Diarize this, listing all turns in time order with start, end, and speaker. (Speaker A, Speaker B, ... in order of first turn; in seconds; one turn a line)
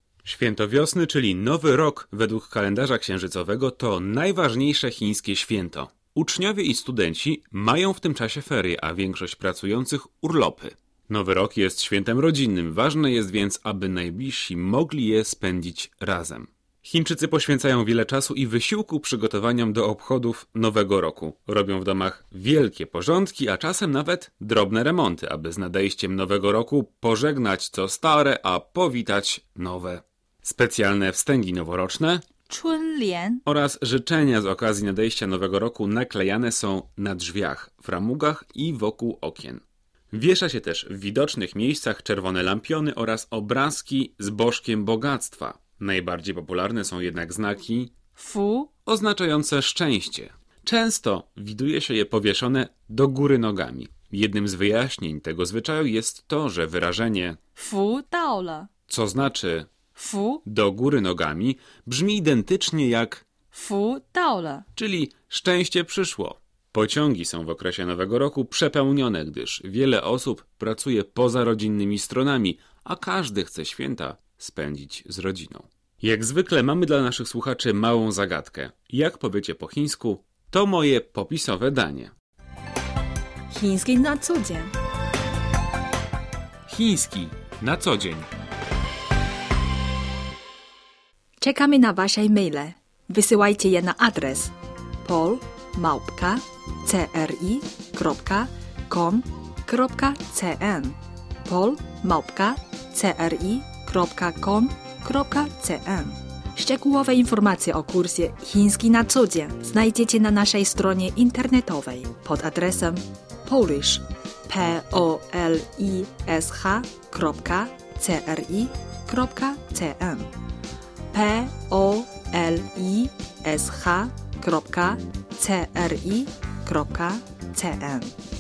Speaker A: 0.2-32.2
Speaker B: 32.5-33.4
Speaker A: 33.5-39.6
Speaker A: 40.1-47.9
Speaker B: 48.1-48.7
Speaker A: 48.9-57.4
Speaker B: 57.6-58.7
Speaker A: 58.9-59.7
Speaker B: 60.0-60.4
Speaker A: 60.5-63.2
Speaker B: 63.5-64.7
Speaker A: 64.8-82.1
Speaker B: 83.5-84.7
Speaker A: 86.7-88.3
Speaker B: 91.4-120.3
Speaker B: 121.1-128.1